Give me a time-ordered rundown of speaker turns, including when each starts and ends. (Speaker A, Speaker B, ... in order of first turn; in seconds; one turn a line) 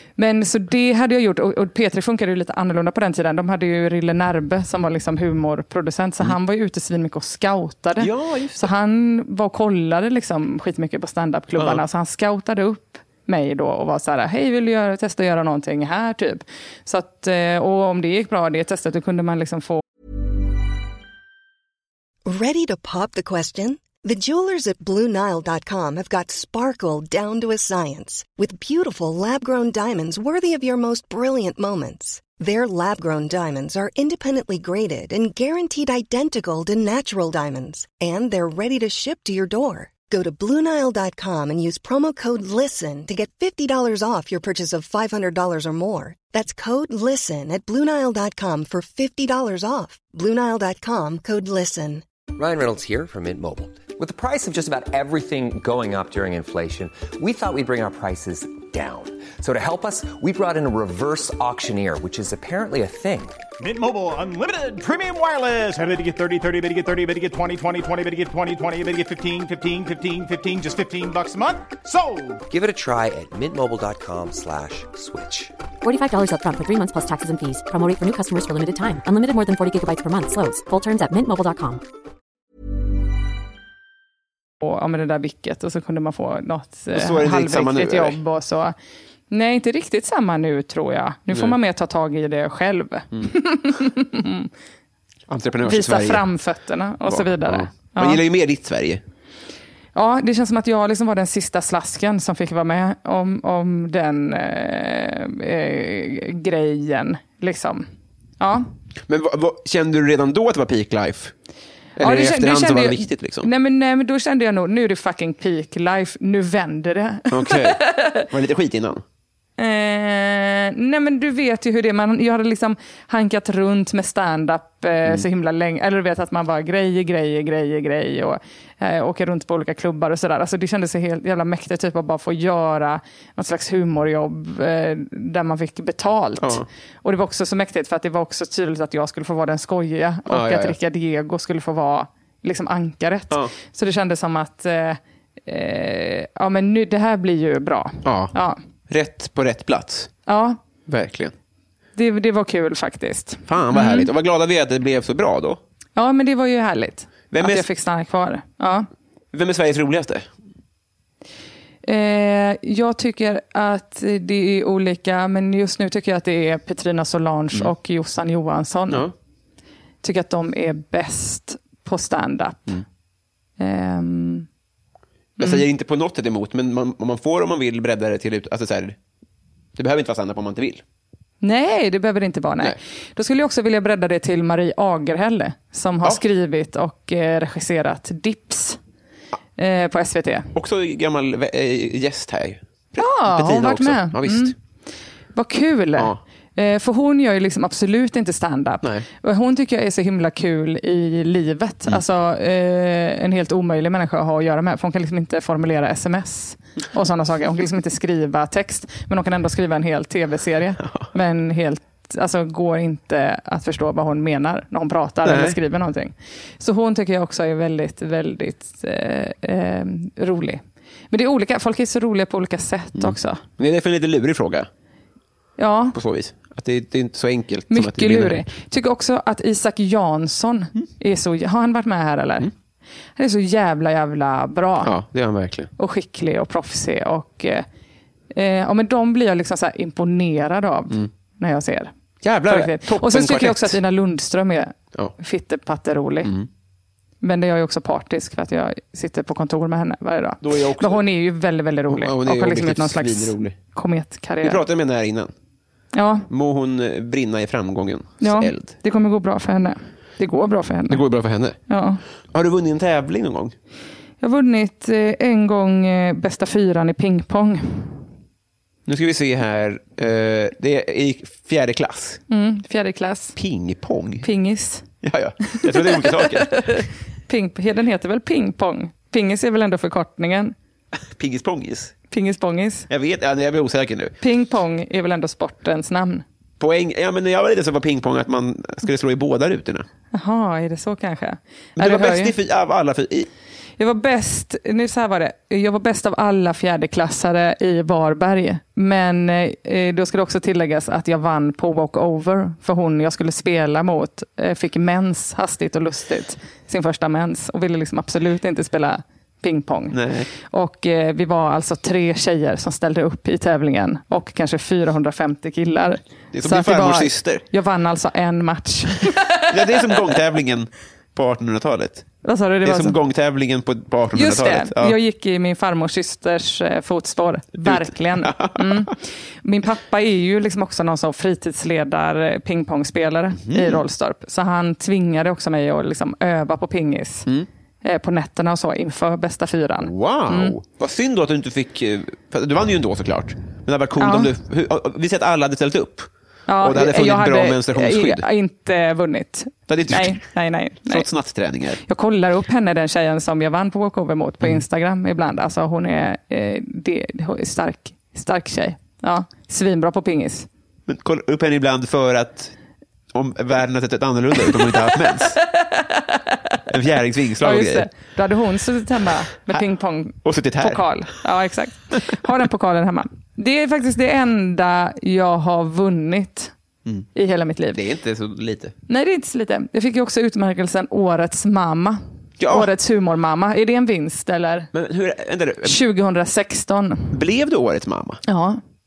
Speaker A: 0.2-19.8
Speaker B: 8.0-8.7
Speaker B: 11.6-11.8
Speaker C: 22.2-52.0
Speaker D: 52.3-63.4
Speaker E: 63.6-72.4
Speaker D: 72.5-75.5
Speaker F: 75.8-81.8
Speaker A: 84.6-88.8
Speaker B: 86.9-88.2
Speaker A: 89.3-94.5
Speaker B: 91.3-91.6
Speaker B: 95.3-96.3
Speaker A: 95.6-98.2
Speaker B: 97.1-99.0
Speaker A: 100.0-108.7
Speaker B: 109.1-111.3
Speaker B: 112.0-113.5
Speaker A: 112.0-118.3
Speaker B: 117.3-119.0
Speaker A: 119.6-148.6
Speaker B: 136.4-136.7
Speaker B: 140.3-140.8
Speaker B: 148.0-148.3
Speaker B: 148.9-150.1
Speaker A: 150.3-150.6
Speaker B: 150.9-151.3
Speaker A: 152.0-154.1
Speaker B: 153.5-155.6
Speaker A: 156.0-158.9
Speaker B: 157.3-157.7
Speaker B: 159.3-160.3
Speaker A: 161.8-169.1
Speaker B: 168.9-169.1
Speaker A: 170.0-172.8
Speaker A: 173.6-174.5
Speaker A: 175.4-175.6
Speaker B: 175.4-179.0
Speaker B: 179.8-180.8
Speaker A: 181.4-188.8
Speaker A: 189.6-190.5
Speaker B: 190.5-194.6
Speaker A: 193.0-194.5
Speaker A: 195.3-223.4
Speaker B: 215.2-215.6
Speaker B: 223.0-224.7
Speaker A: 225.6-226.0
Speaker B: 225.9-228.5
Speaker A: 227.7-232.5
Speaker A: 233.2-234.9
Speaker B: 234.8-235.7
Speaker A: 235.8-237.7
Speaker A: 238.3-241.9
Speaker B: 242.2-243.8
Speaker A: 242.5-246.3
Speaker A: 247.2-254.6
Speaker B: 250.4-251.0
Speaker B: 251.9-253.6
Speaker B: 254.4-255.3
Speaker A: 255.9-256.3
Speaker B: 256.3-258.7
Speaker A: 258.2-261.0
Speaker B: 260.9-261.6
Speaker A: 261.7-262.0
Speaker B: 262.3-263.6
Speaker A: 264.2-268.0
Speaker B: 268.9-272.2
Speaker A: 272.3-273.4
Speaker B: 273.4-274.3
Speaker A: 274.2-274.9
Speaker B: 275.0-276.7
Speaker A: 275.5-280.6
Speaker B: 281.1-281.9
Speaker A: 282.1-282.9
Speaker B: 282.9-284.1
Speaker A: 284.2-286.2
Speaker B: 286.6-289.9
Speaker A: 290.1-292.4
Speaker B: 291.8-293.3
Speaker A: 293.8-320.1
Speaker B: 309.9-310.3
Speaker B: 316.3-317.4
Speaker B: 319.5-322.1
Speaker A: 322.2-323.0
Speaker B: 322.6-325.0
Speaker A: 324.1-337.3
Speaker B: 327.6-328.9
Speaker B: 333.4-333.8
Speaker A: 337.8-340.6
Speaker B: 339.8-348.3
Speaker A: 344.0-344.3
Speaker A: 346.5-351.1
Speaker B: 349.7-350.2
Speaker B: 350.9-351.8
Speaker A: 351.8-360.5
Speaker B: 360.9-362.5
Speaker B: 363.1-365.4
Speaker A: 364.5-366.6
Speaker B: 366.7-367.9
Speaker A: 367.4-376.5
Speaker B: 370.2-370.9
Speaker A: 377.1-377.8
Speaker B: 377.7-378.7
Speaker A: 378.9-384.7
Speaker B: 382.4-382.7
Speaker B: 384.7-385.8
Speaker A: 385.6-387.2
Speaker B: 387.1-388.2
Speaker A: 388.2-388.6